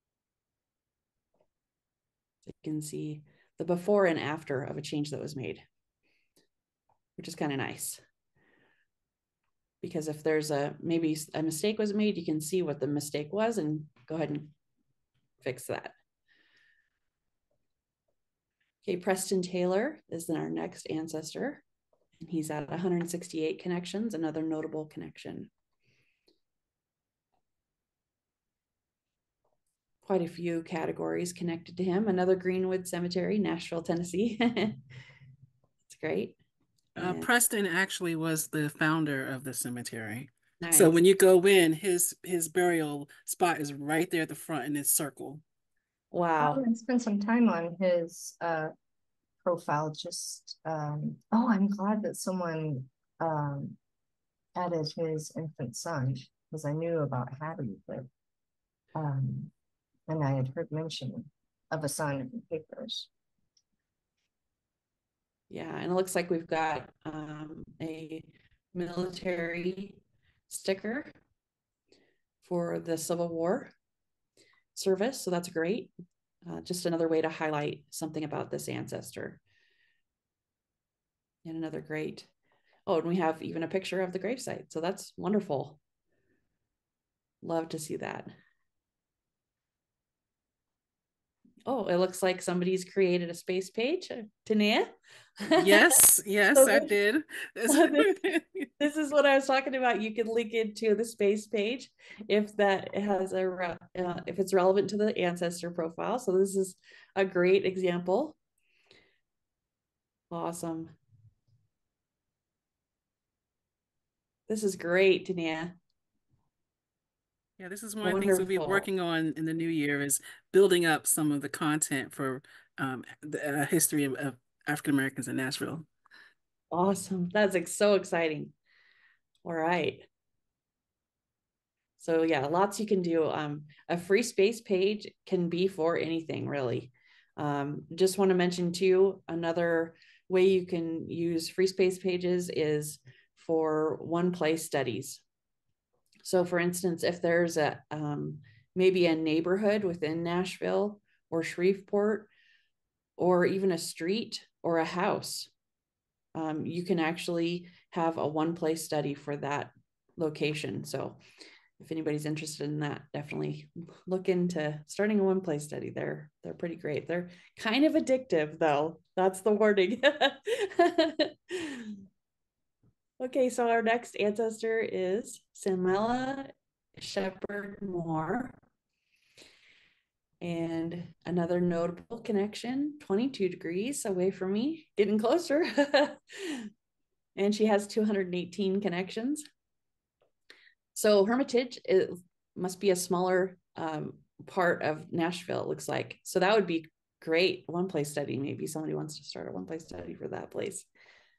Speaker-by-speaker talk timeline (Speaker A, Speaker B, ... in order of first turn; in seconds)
Speaker A: 2.5-5.6, 7.2-8.0, 9.8-14.5, 15.4-15.9, 18.8-21.6, 22.2-25.5, 30.1-34.8, 35.9-36.4, 37.0-37.3, 40.6-41.0, 46.1-46.6, 65.5-71.1, 72.4-73.7, 74.8-75.9, 76.5-79.4, 81.5-82.3, 82.9-85.8, 87.4-88.3, 91.7-96.0, 96.5-96.9, 97.7-98.2, 98.8-108.4, 110.3-111.0, 114.5-115.8, 118.0-118.9, 126.7-128.5, 129.4-130.1, 132.0-145.2, 146.2-152.3, 153.2-155.5, 156.3-161.2, 161.8-172.0, 173.2-178.6, 180.4-186.7, 187.4-189.4, 190.9-200.9
Speaker B: 37.0-45.4, 95.6-98.7, 117.6-125.9
Speaker C: 46.4-48.7, 49.4-53.8, 54.6-58.1, 59.0-59.5, 60.1-63.1